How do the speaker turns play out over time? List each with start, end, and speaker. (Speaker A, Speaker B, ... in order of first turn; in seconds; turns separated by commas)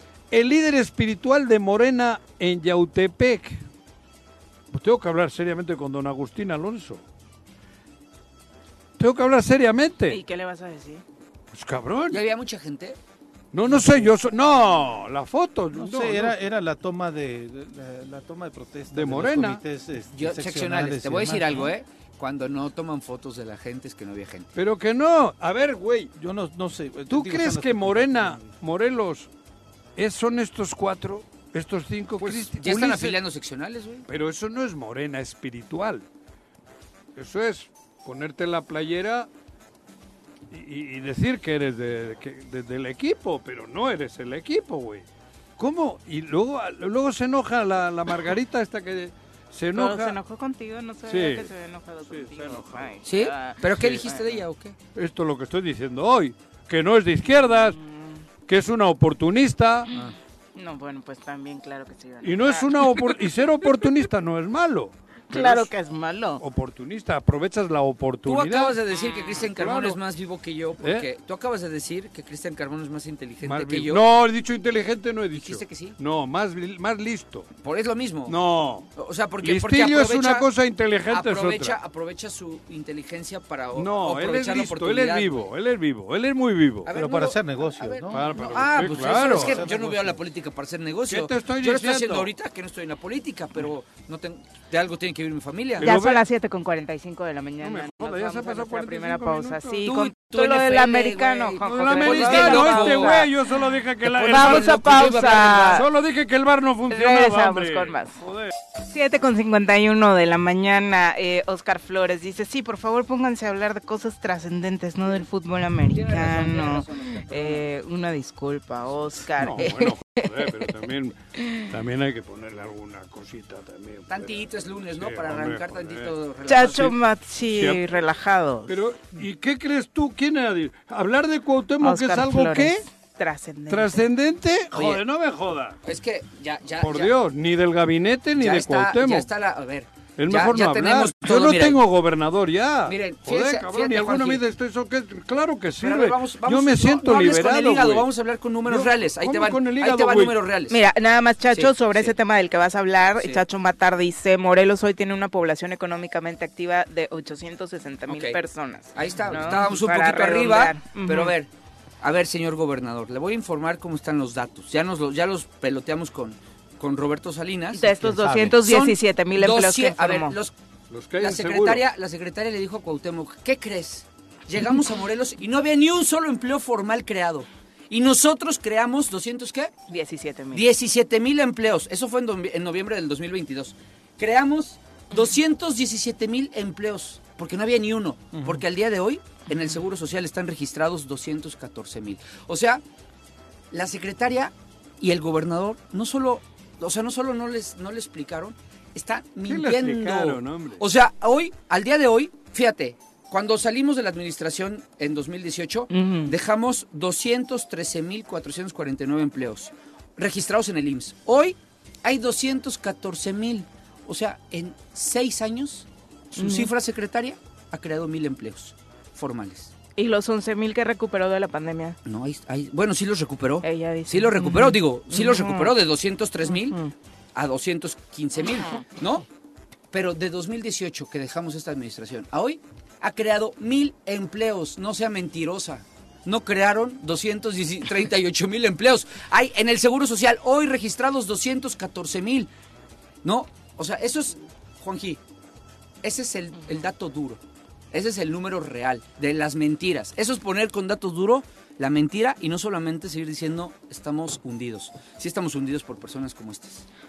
Speaker A: 0.3-3.6, Speaker A: 4.7-7.0, Speaker A: 9.0-10.2, Speaker B: 10.1-11.0, Speaker A: 11.5-12.2, Speaker C: 12.1-13.0, Speaker A: 13.5-16.4, Speaker C: 13.7-14.1, Speaker D: 15.7-21.6, Speaker A: 18.9-19.6, Speaker C: 20.1-24.5, Speaker A: 24.6-26.1, Speaker D: 26.2-28.5, Speaker A: 27.1-29.3, Speaker A: 30.0-33.2, Speaker C: 32.2-34.0, Speaker A: 34.1-36.0, Speaker A: 37.2-39.3, Speaker A: 40.5-45.1, Speaker A: 45.6-50.2, Speaker B: 49.7-54.3, Speaker A: 51.1-51.5, Speaker A: 52.1-53.0, Speaker C: 53.1-54.8, Speaker A: 53.7-54.2, Speaker A: 55.0-57.8, Speaker B: 57.7-58.2, Speaker A: 58.5-59.9, Speaker B: 59.9-63.2, Speaker A: 62.2-65.7, Speaker B: 65.3-66.4, Speaker A: 66.4-68.8, Speaker C: 68.2-74.0, Speaker B: 68.9-69.5, Speaker A: 69.4-70.0, Speaker A: 70.8-71.1, Speaker A: 73.4-77.5, Speaker C: 75.3-76.0, Speaker C: 77.6-78.4, Speaker A: 78.3-81.8, Speaker C: 79.0-80.5, Speaker C: 81.1-85.5, Speaker A: 83.8-86.9, Speaker C: 86.8-95.9, Speaker D: 86.9-90.2, Speaker A: 88.1-89.7, Speaker A: 91.1-92.3, Speaker A: 95.8-96.2, Speaker B: 95.8-103.3, Speaker A: 97.6-99.8, Speaker C: 99.8-103.3, Speaker A: 101.6-108.5, Speaker C: 104.1-105.8, Speaker B: 104.3-105.9, Speaker B: 106.9-108.2, Speaker B: 108.8-120.5, Speaker C: 115.9-117.7, Speaker A: 119.4-126.1, Speaker B: 121.4-121.7, Speaker C: 124.1-126.9, Speaker B: 126.5-128.8, Speaker A: 126.7-127.0, Speaker A: 127.5-127.9, Speaker A: 128.7-132.8, Speaker B: 131.8-134.0, Speaker A: 133.7-135.8, Speaker C: 134.7-135.0, Speaker C: 135.8-137.1, Speaker A: 136.8-139.3, Speaker C: 138.4-141.8, Speaker A: 140.2-148.1, Speaker C: 142.9-144.4, Speaker C: 145.8-150.8, Speaker A: 148.7-150.4, Speaker B: 150.7-161.3, Speaker C: 151.5-152.2, Speaker C: 153.1-153.4, Speaker C: 158.1-158.4, Speaker C: 158.9-161.5, Speaker C: 162.0-167.9, Speaker B: 167.7-170.4, Speaker D: 167.8-168.6, Speaker C: 168.6-170.5, Speaker A: 170.9-171.8, Speaker C: 171.2-179.7, Speaker B: 179.9-180.7, Speaker C: 180.5-192.8, Speaker D: 188.3-188.7, Speaker C: 193.7-219.7, Speaker A: 199.5-200.8, Speaker B: 205.9-206.3, Speaker B: 216.4-216.7, Speaker B: 220.0-222.0, Speaker C: 222.1-226.8, Speaker B: 223.6-225.7, Speaker B: 226.5-226.9, Speaker C: 227.3-229.2, Speaker C: 229.9-242.5, Speaker C: 243.2-245.2, Speaker C: 246.0-256.9